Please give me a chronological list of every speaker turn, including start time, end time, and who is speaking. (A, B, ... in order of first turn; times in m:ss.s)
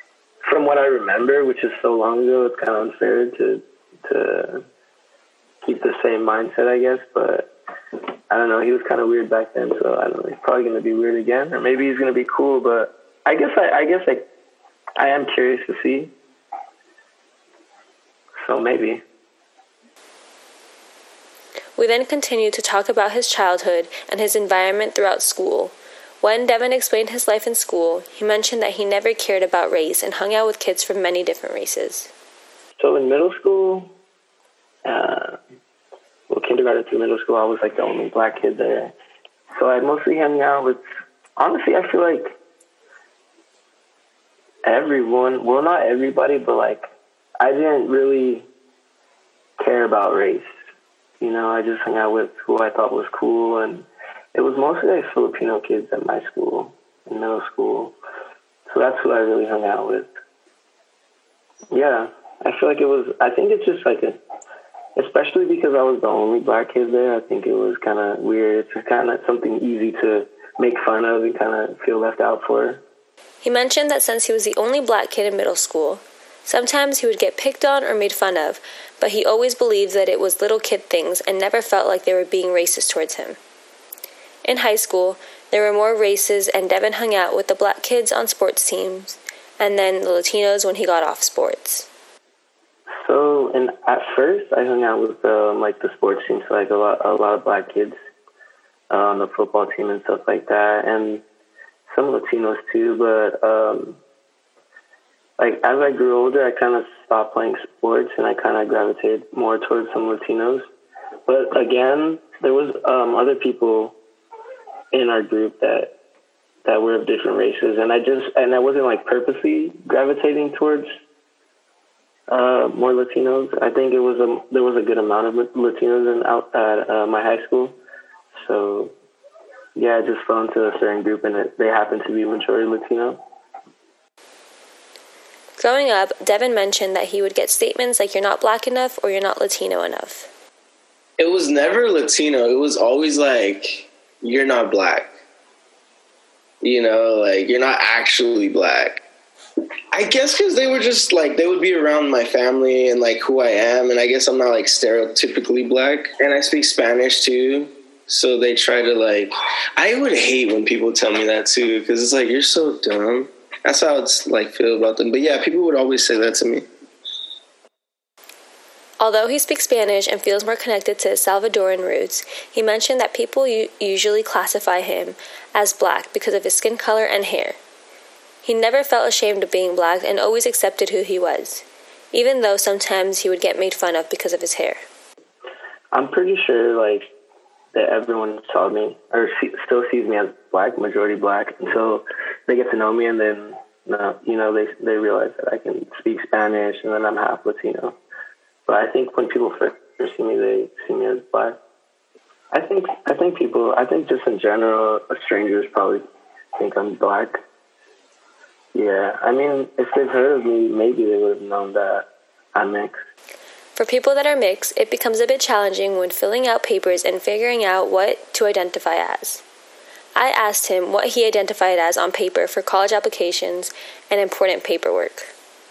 0:00.4-0:04.6 A
0:05.6-0:07.5 A
0:08.3-0:14.3 A
0:15.0-0:16.1 A
0:18.4-0:19.0 A
0:21.8-0:32.1 B
0:32.8-0:33.9 A
0:34.8-0:35.4 A
0:36.3-0:38.9 A
0:39.5-0:40.8 A
0:41.4-0:42.4 A
0:44.6-0:46.9 A
0:47.4-0:48.5 A
0:49.6-0:50.6 A
0:51.2-0:58.0 A
0:58.7-1:00.1 A
1:01.7-1:04.2 A
1:05.0-1:12.8 A
1:13.4-1:23.4 B
1:24.4-1:31.9 B
1:33.0-1:38.0 A
1:38.9-1:41.2 A
1:41.9-1:44.0 A
1:45.4-1:50.7 A
1:51.3-1:54.0 A
1:54.9-1:55.9 A
1:56.6-2:00.9 A
2:02.3-2:07.8 A
2:08.4-2:08.9 A
2:09.8-2:13.2 A
2:15.6-2:20.3 B
2:21.2-2:25.1 C
2:26.6-2:29.0 C
2:29.9-2:46.7 C
2:49.0-2:57.6 B
2:58.4-3:04.8 B
3:05.9-3:07.1 A
3:07.7-3:18.0 A
3:18.7-3:21.6 A
3:22.5-3:26.0 A
3:26.6-3:27.4 A
3:28.7-3:33.0 A
3:33.8-3:39.4 B
3:40.2-3:45.3 B